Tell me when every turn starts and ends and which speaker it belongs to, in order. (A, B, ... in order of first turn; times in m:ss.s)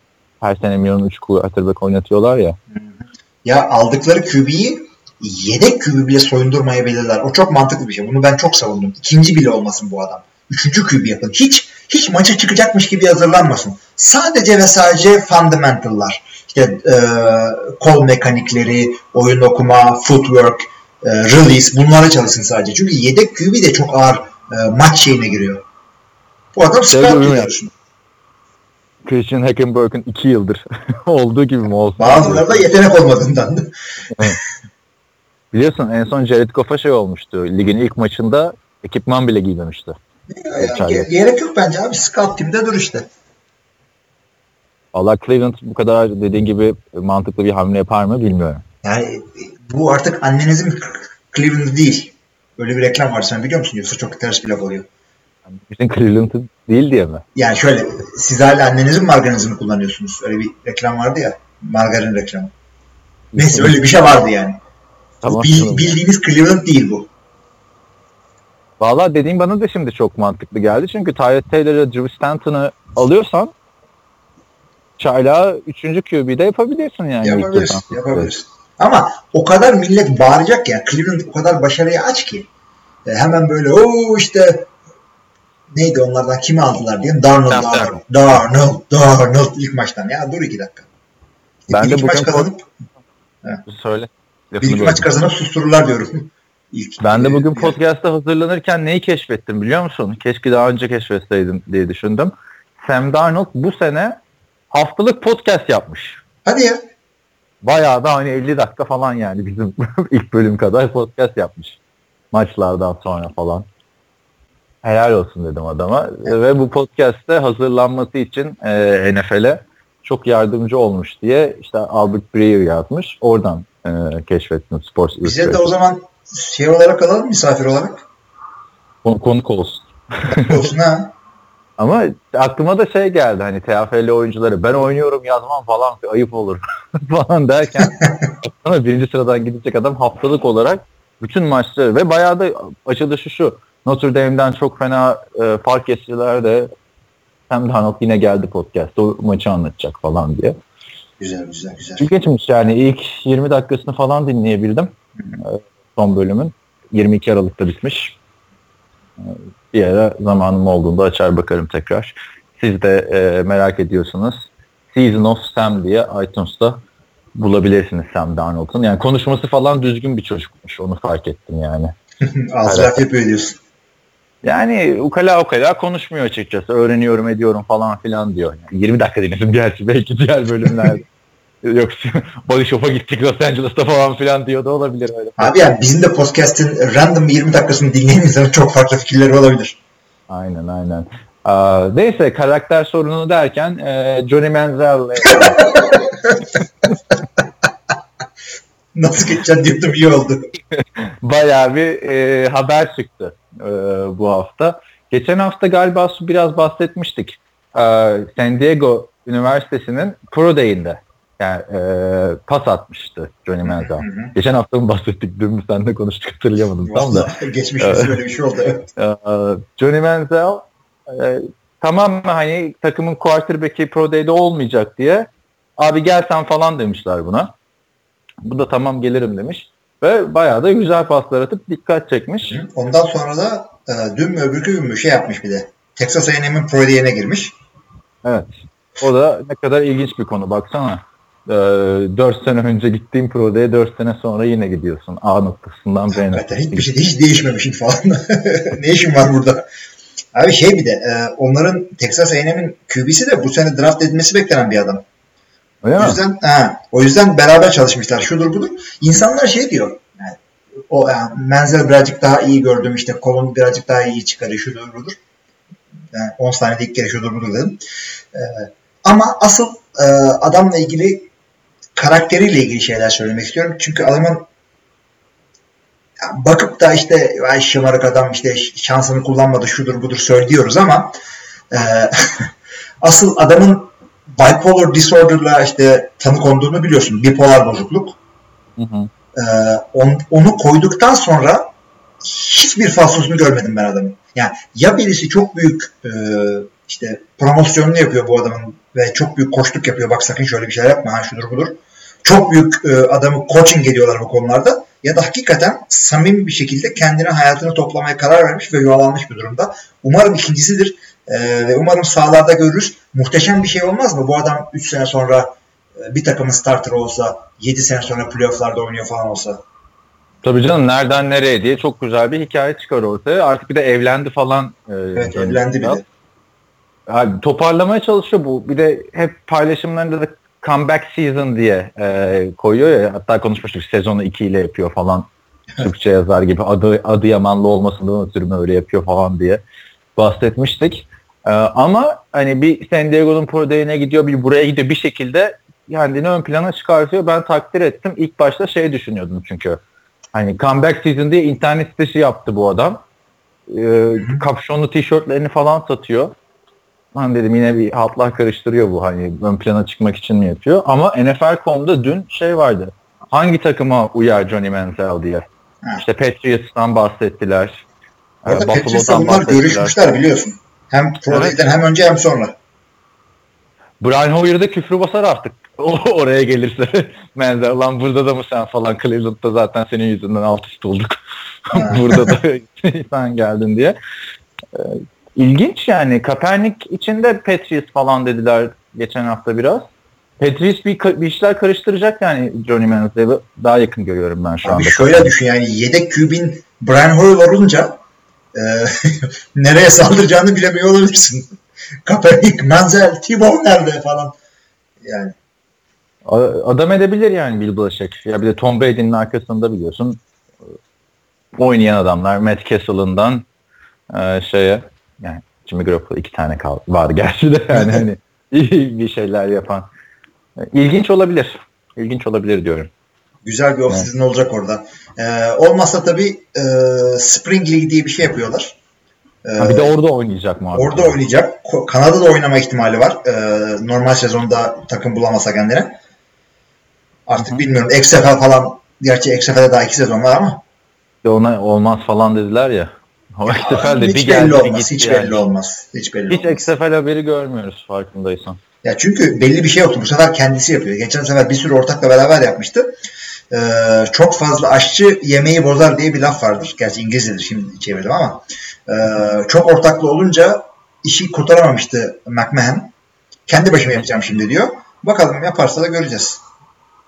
0:00.4-0:02.6 A
0:02.7-0:25.6 B
0:26.6-0:27.7 B
0:26.9-0:27.5 A
0:29.0-0:32.7 A
0:32.0-0:34.3 B
0:34.1-0:34.4 A
0:35.5-0:40.0 A
0:40.3-0:43.1 B
0:40.6-0:41.1 A
0:44.9-0:48.6 A
0:48.8-0:54.9 B
0:55.5-0:57.2 A
0:57.4-1:02.5 B
1:03.3-1:03.9 A
1:03.4-1:04.6 B
1:05.2-1:06.0 A
1:05.2-1:07.1 B
1:08.8-1:13.5 A
1:15.0-1:18.3 A
1:17.2-1:22.5 B
1:23.1-1:24.7 B
1:25.7-1:30.9 B
1:27.5-1:28.0 A
1:31.7-1:32.7 B
1:31.7-1:32.5 A
1:33.6-1:35.1 A
1:34.6-1:37.8 B
1:37.0-1:44.2 A
1:44.7-1:46.2 A
1:46.5-1:46.8 B
1:47.6-1:51.8 A
1:52.3-1:53.7 A
1:54.8-2:05.7 A
2:05.2-2:08.0 B
2:09.0-2:10.7 A
2:10.3-2:11.1 B
2:11.8-2:26.7 A
2:27.5-2:30.6 A
2:31.2-2:32.1 B
2:32.0-2:38.2 A
2:39.2-2:46.8 A
2:47.4-2:51.9 A
2:52.2-2:53.6 B
2:52.6-2:53.0 A
2:54.4-3:01.0 A
3:00.7-3:01.0 B
3:01.6-3:05.7 A
3:05.4-3:09.8 B
3:10.3-3:16.0 A
3:15.3-3:16.4 B
3:18.9-3:20.4 B
3:20.8-3:38.2 A
3:33.6-3:34.3 B
3:36.8-3:38.9 B
3:39.0-3:47.5 A
3:48.4-3:52.6 A
3:52.5-3:57.6 B
3:58.2-4:06.9 A
4:06.1-4:09.7 B
4:10.3-4:15.0 B
4:15.8-4:16.2 A
4:16.0-4:25.2 B
4:26.1-4:27.8 B
4:28.3-4:31.3 B
4:32.0-4:34.5 B
4:36.2-4:41.2 B
4:41.7-4:42.5 B
4:43.0-4:48.2 B
4:48.8-4:49.1 A
4:49.4-4:51.7 B
4:52.2-5:19.6 B
5:20.4-5:26.0 A
5:25.2-5:26.0 B
5:27.1-5:35.3 A
5:35.8-5:39.6 A
5:40.2-5:49.8 A
5:50.3-5:53.0 A
5:53.7-5:56.3 A
5:54.2-5:54.4 B
5:57.1-6:05.4 A
6:06.0-6:07.8 A
6:08.4-6:10.0 A
6:08.5-6:12.5 B
6:11.3-6:11.6 A
6:14.0-6:24.0 A
6:21.7-6:22.4 B
6:24.7-6:29.9 A
6:30.4-6:35.3 A
6:34.6-6:38.0 B
6:38.5-6:44.4 B
6:45.0-6:45.4 B
6:46.2-6:50.2 A
6:51.6-6:53.5 A
6:54.1-6:59.9 A
6:57.8-6:58.0 B
7:00.6-7:02.9 A
7:03.4-7:08.8 B
7:09.4-7:09.9 B
7:09.6-7:11.2 A
7:10.8-7:16.0 B
7:17.3-7:20.6 B
7:17.4-7:17.6 A
7:21.2-7:25.4 A
7:23.5-7:26.7 B
7:26.3-7:28.6 A
7:28.8-7:32.9 B
7:33.5-7:42.9 B
7:43.5-7:46.4 B